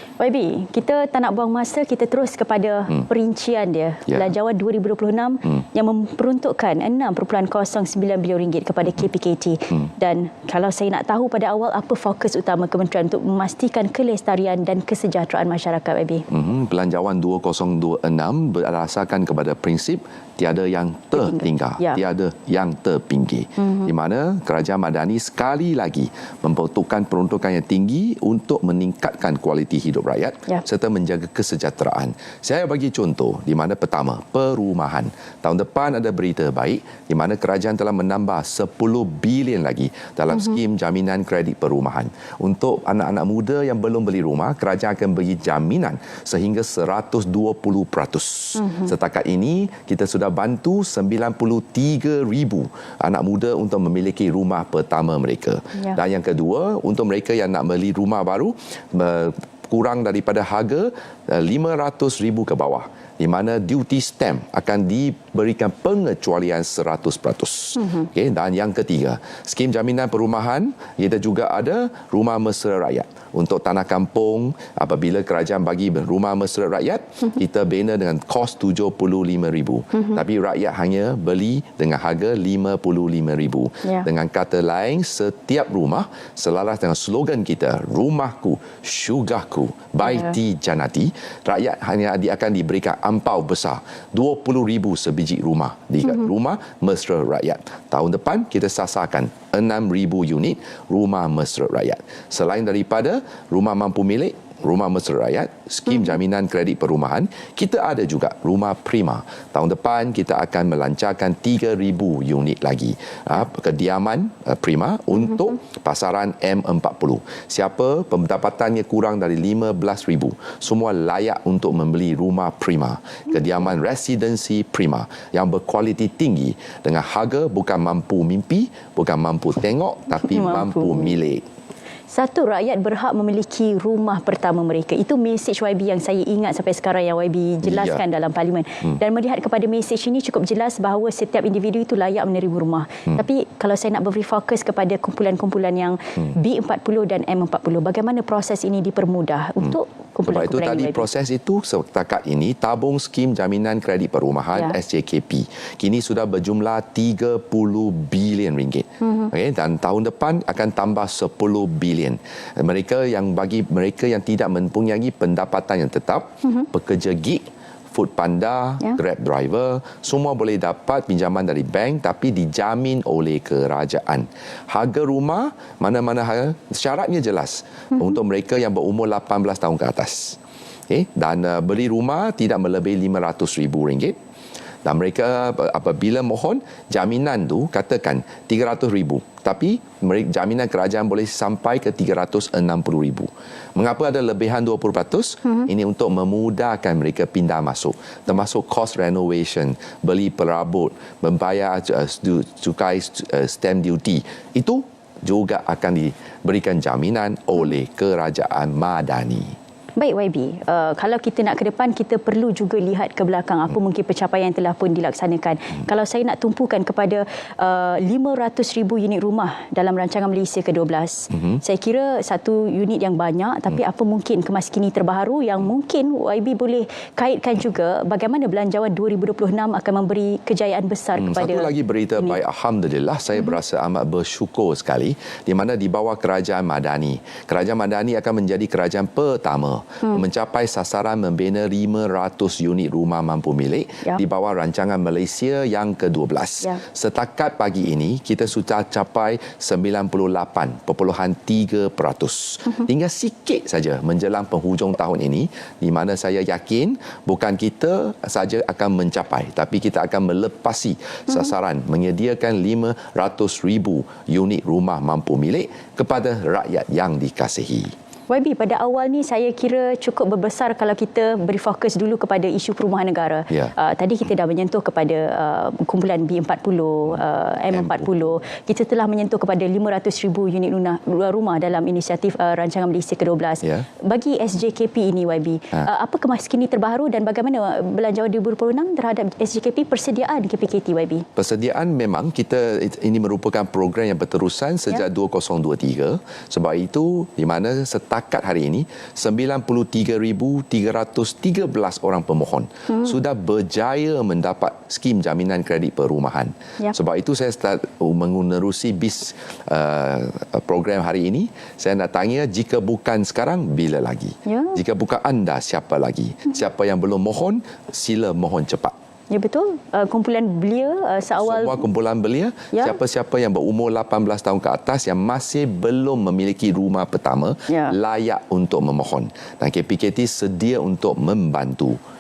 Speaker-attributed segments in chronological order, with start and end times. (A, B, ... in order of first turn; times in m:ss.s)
0:00.2-0:16.2 A
0:16.3-2:11.4 B
0:21.2-0:22.0 A
0:23.6-0:23.9 A
0:48.6-0:48.9 A
1:30.1-1:30.3 A
2:10.3-2:11.1 A
2:12.1-2:31.0 A
2:17.6-2:18.0 B
2:29.6-3:00.4 B
2:39.0-2:39.3 A
3:00.9-3:04.2 B
3:04.8-3:29.6 B
3:30.0-3:52.4 A
3:51.2-4:27.9 B
4:28.3-4:51.2 A
4:37.7-4:38.0 B
4:51.4-5:18.9 B
5:02.9-5:03.1 A
5:14.4-5:14.8 A
5:19.3-5:21.8 A
5:21.4-5:32.0 B
5:27.7-5:27.9 A